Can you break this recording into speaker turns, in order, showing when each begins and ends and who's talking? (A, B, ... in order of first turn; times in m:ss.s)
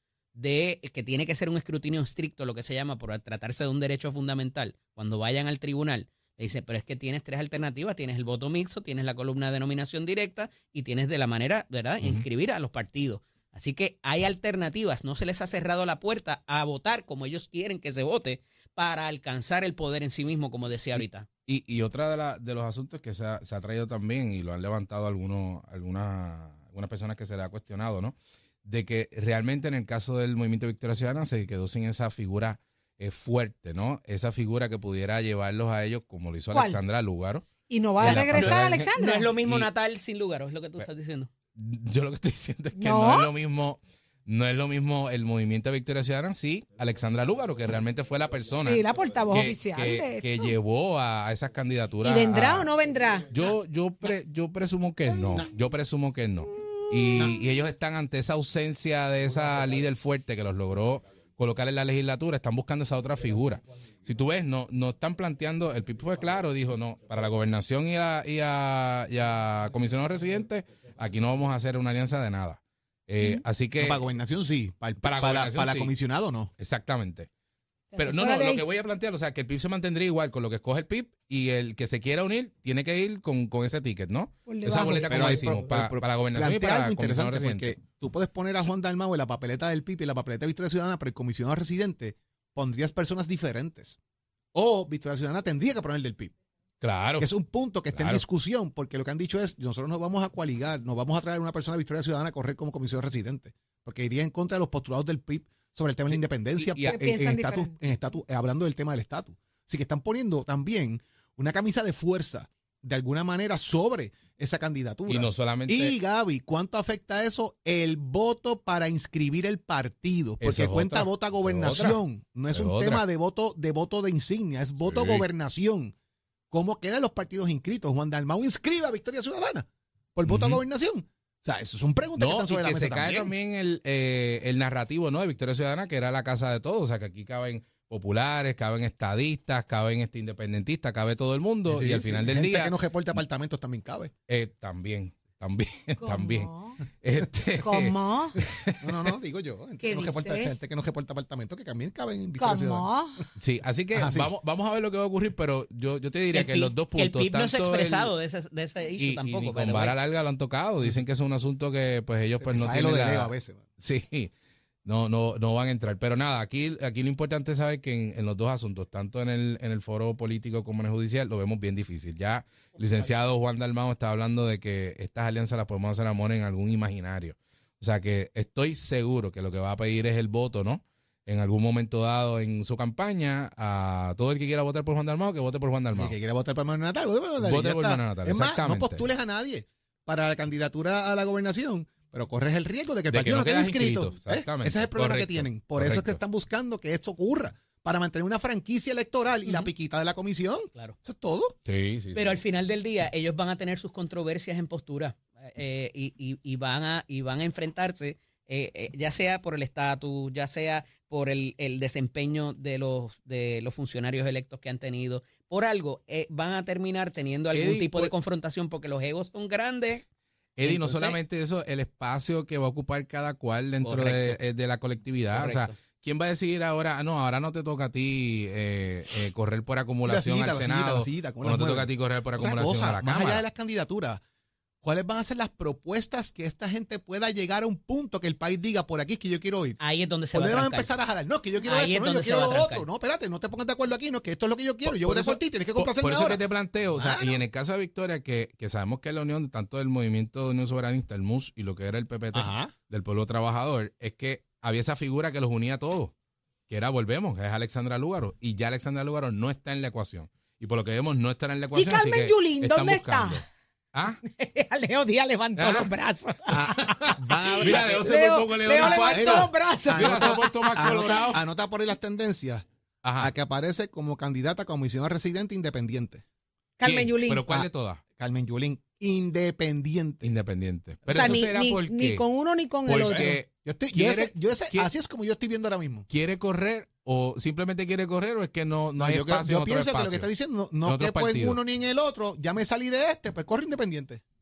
0:00.4-0:21.3 A
0:21.0-0:39.7 B
0:36.5-0:36.8 C
0:37.7-0:39.3 C
0:38.0-0:41.3 A
0:41.6-0:52.7 B
0:42.8-0:43.3 C
0:48.6-0:50.5 C
0:52.0-0:53.3 C
0:53.3-1:14.0 B
0:56.5-0:57.4 C
1:13.8-1:16.5 D
1:15.0-1:15.9 B
1:16.6-1:17.3 B
1:17.9-1:18.6 C
1:18.0-1:27.8 B
1:24.5-1:25.4 C
1:24.8-1:34.0 D
1:34.5-1:36.3 D
1:36.8-1:37.3 B
1:37.2-2:06.0 D
1:37.9-1:38.2 B
1:46.1-1:47.0 B
1:46.9-1:47.8 C
1:55.1-1:56.0 B
2:00.4-2:02.0 B
2:02.5-2:03.0 B
2:04.8-2:05.2 B
2:06.5-2:13.3 D
2:10.3-2:10.6 B
2:12.2-2:22.7 B
2:21.7-2:24.1 D
2:24.3-2:28.8 B
2:26.0-2:26.8 C
2:27.6-2:28.4 C
2:28.8-2:33.3 D
2:29.8-2:30.6 C
2:32.4-2:33.2 C
2:33.4-2:38.1 B
2:33.9-2:34.3 D
2:36.3-2:40.0 A
2:39.0-2:44.3 B
2:42.4-2:43.7 D
2:44.8-3:06.1 B
3:05.9-3:21.6 D
3:07.4-3:09.0 B
3:13.1-3:16.2 B
3:21.7-3:22.4 B
3:22.2-3:40.0 A
3:37.5-3:38.1 B
3:40.6-3:53.4 B
3:40.6-3:41.2 A
3:43.8-3:44.4 A
3:45.3-3:45.8 A
3:50.0-3:54.2 D
3:54.8-3:59.8 D
3:59.8-4:00.9 A
4:00.3-4:06.4 D
4:01.6-4:02.9 A
4:04.8-4:16.1 B
4:07.0-4:07.4 D
4:16.7-4:24.2 B
4:21.7-4:23.4 C
4:24.2-4:26.7 C
4:25.6-4:25.9 B
4:26.5-4:31.4 B
4:27.2-4:32.7 D
4:27.4-4:30.5 C
4:33.0-4:33.3 B
4:33.2-4:36.2 D
4:36.8-4:37.6 C
4:36.8-4:38.0 B
4:38.2-4:40.2 D
4:40.2-4:42.2 B
4:41.0-4:41.5 D
4:41.1-4:43.4 C
4:42.9-4:44.9 B
4:43.0-4:46.1 D
4:46.1-4:50.3 B
4:49.0-4:54.2 D
4:50.8-4:51.6 B